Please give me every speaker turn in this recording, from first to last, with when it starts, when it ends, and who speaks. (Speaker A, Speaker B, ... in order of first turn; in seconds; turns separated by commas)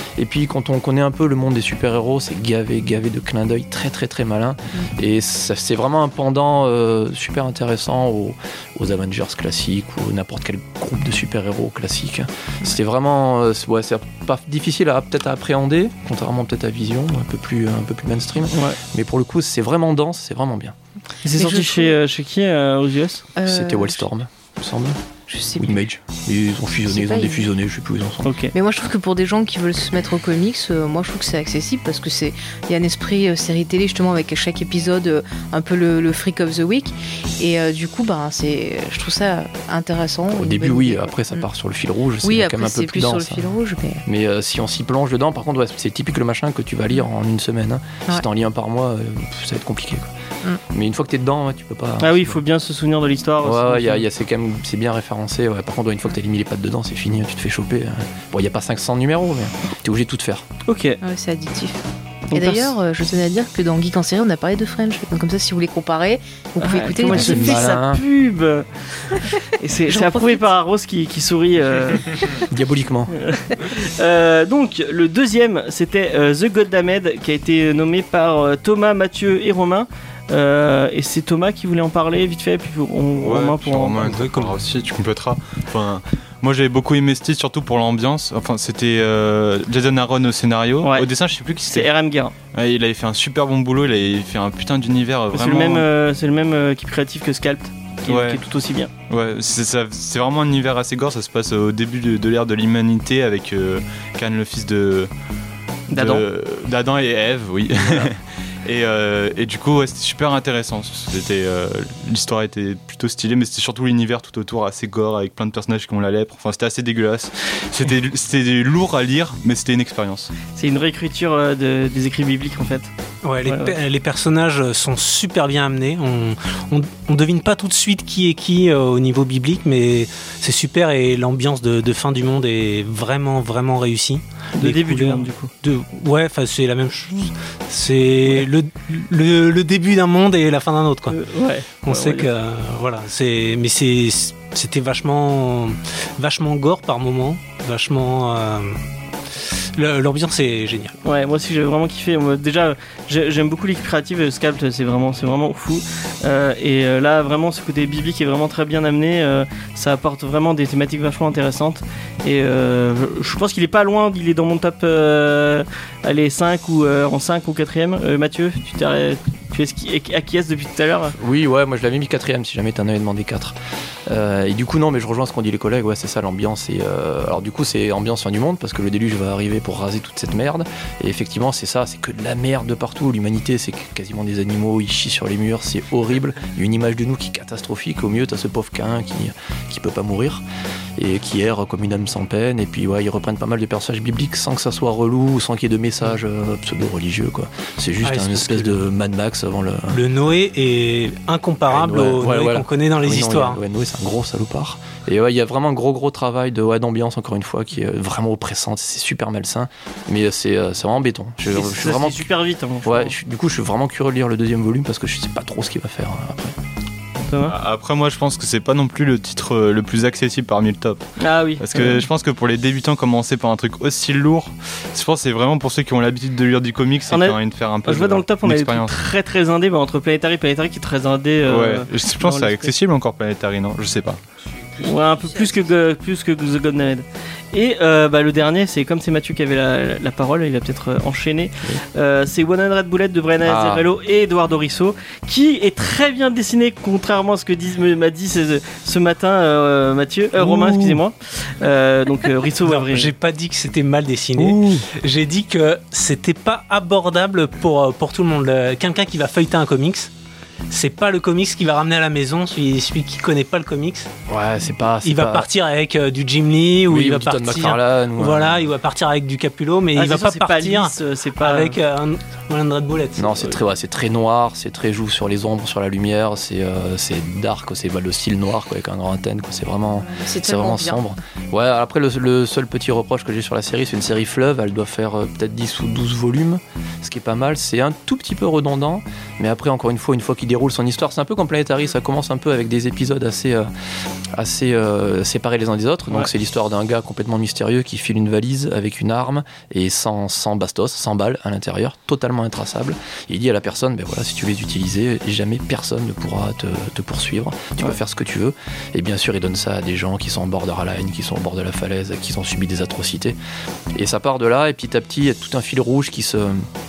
Speaker A: 0.2-20.8, Speaker B: 18.5-18.8, Speaker B: 21.2-23.2, Speaker C: 21.4-21.9, Speaker C: 23.4-24.0, Speaker A: 23.5-25.0, Speaker C: 25.3-25.8, Speaker A: 25.6-28.3, Speaker C: 26.9-27.5, Speaker B: 28.2-28.5, Speaker C: 28.5-41.5, Speaker A: 40.3-43.5, Speaker C: 42.2-44.0, Speaker A: 44.1-50.1, Speaker A: 50.7-52.4, Speaker B: 52.0-54.1, Speaker A: 53.4-60.4, Speaker B: 60.7-61.0, Speaker C: 61.0-61.8, Speaker B: 62.3-62.8, Speaker C: 62.3-67.7, Speaker B: 66.6-72.2, Speaker A: 67.1-68.0, Speaker C: 69.2-70.4, Speaker A: 72.5-73.1, Speaker B: 73.2-84.0, Speaker D: 83.2-91.9, Speaker E: 84.0-84.6, Speaker B: 90.8-91.1, Speaker B: 91.7-92.3, Speaker D: 92.5-95.9, Speaker B: 95.3-98.9, Speaker D: 98.1-98.4, Speaker D: 99.1-105.1, Speaker B: 105.9-106.2, Speaker D: 105.9-120.3, Speaker B: 107.8-108.1, Speaker B: 120.5-122.9, Speaker E: 123.2-141.2, Speaker B: 123.5-123.8, Speaker B: 134.6-135.5, Speaker B: 141.1-142.3, Speaker E: 141.8-148.8, Speaker E: 149.3-151.0, Speaker B: 151.0-171.2, Speaker A: 171.2-173.6, Speaker A: 174.1-190.4, Speaker A: 191.0-200.0, Speaker E: 198.0-198.8, Speaker E: 199.9-203.6, Speaker A: 201.7-212.3, Speaker B: 211.5-213.2, Speaker A: 212.8-216.6, Speaker B: 217.3-217.6, Speaker D: 217.5-229.0, Speaker B: 221.2-222.1, Speaker B: 227.1-232.7, Speaker D: 231.4-234.2, Speaker B: 234.8-253.1, Speaker C: 234.8-235.7, Speaker A: 243.4-243.9, Speaker E: 250.4-251.0, Speaker E: 252.7-260.1, Speaker A: 254.4-254.9, Speaker E: 260.7-264.1, Speaker A: 264.3-265.5, Speaker E: 265.0-273.6, Speaker A: 266.9-268.7, Speaker B: 269.9-271.8, Speaker A: 273.2-293.7, Speaker C: 280.0-281.0, Speaker A: 294.4-313.4, Speaker A: 313.9-316.7